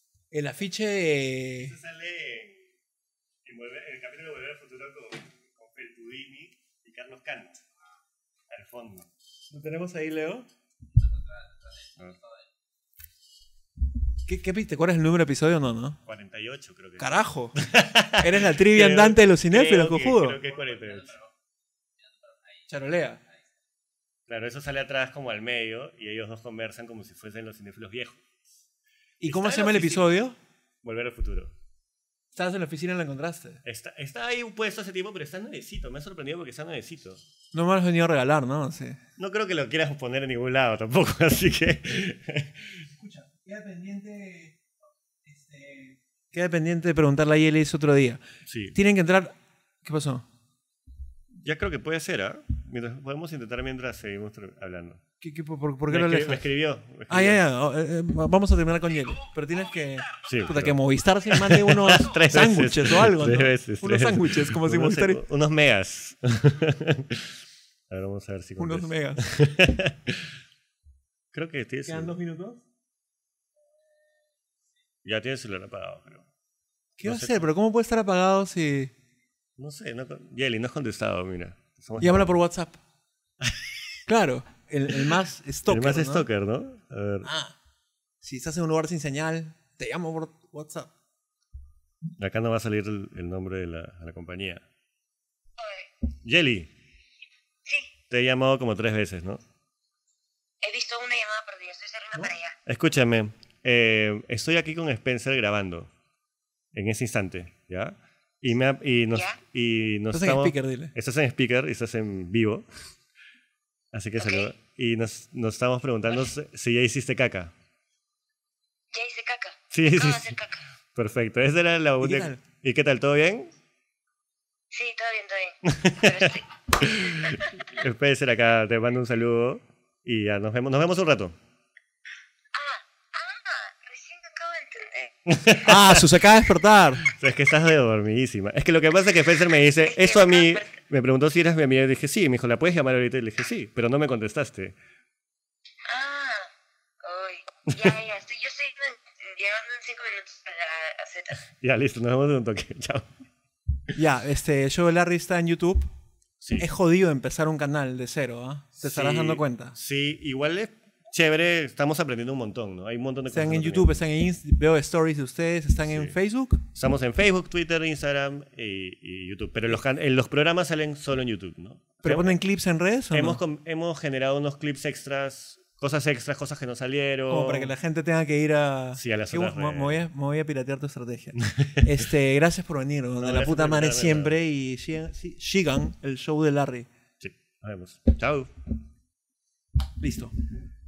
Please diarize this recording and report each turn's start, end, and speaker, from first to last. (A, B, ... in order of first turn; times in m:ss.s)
0:00.3-0:01.7 A
0:01.6-0:02.7 B
0:03.4-0:07.6 B
0:08.5-0:09.1 B
0:09.5-0:10.5 A
0:11.9-0:12.2 B
0:14.2-0:16.0 A
0:16.1-0:21.2 B
0:17.0-0:17.6 A
0:18.2-0:20.4 A
0:22.7-0:23.2 A
0:24.3-0:28.4 B
0:29.2-0:30.4 A
0:29.2-0:30.1 B
0:30.8-0:31.5 B
0:32.3-0:33.6 A
0:33.6-0:37.2 B
0:37.5-0:39.0 A
0:39.2-0:42.7 B
0:42.9-0:44.6 A
0:45.2-0:48.2 A
0:48.4-0:48.8 B
0:48.7-0:50.2 A
0:51.4-0:55.0 B
0:55.2-0:56.4 A
0:55.9-0:57.4 B
0:57.1-1:05.2 A
1:00.2-1:10.4 B
1:08.6-1:09.3 A
1:11.3-1:12.1 B
1:11.9-1:12.6 A
1:15.0-1:16.3 B
1:17.0-1:18.9 A
1:17.0-1:17.4 B
1:19.6-1:22.3 B
1:22.0-1:22.8 A
1:23.4-1:23.7 B
1:24.1-1:26.2 A
1:25.7-1:27.3 B
1:27.2-1:27.6 A
1:28.2-1:30.9 A
1:32.2-1:34.6 B
1:35.6-1:35.9 C
1:36.2-1:36.7 B
1:37.6-1:37.9 C
1:38.1-1:39.4 B
1:40.6-1:42.6 C
1:42.6-1:45.9 B
1:46.7-1:52.7 B
1:50.1-1:50.9 A
1:53.9-1:57.5 B
1:54.2-1:54.5 C
1:58.9-2:00.6 C
1:59.7-2:00.4 B
2:00.9-2:03.6 B
2:02.0-2:02.4 A
2:04.7-2:07.6 C
2:05.6-2:11.4 B
2:12.5-2:15.1 C
2:15.3-2:16.1 B
2:15.6-2:17.0 A
2:17.0-2:24.7 B
2:19.9-2:20.7 C
2:25.8-2:26.5 C
2:27.0-2:31.4 C
2:27.7-2:28.0 B
2:31.5-2:33.1 B
2:33.9-2:35.9 A
2:36.4-2:36.7 B
2:36.6-2:39.8 A
2:38.8-2:44.0 B
2:43.3-2:46.6 A
2:45.9-2:46.1 B
2:46.7-2:52.4 B
2:52.0-2:53.4 A
2:53.1-2:57.7 B
2:57.3-3:06.9 A
2:58.9-3:00.0 B
3:01.4-3:02.0 B
3:03.2-3:04.4 B
3:07.2-3:08.5 B
3:10.0-3:10.4 A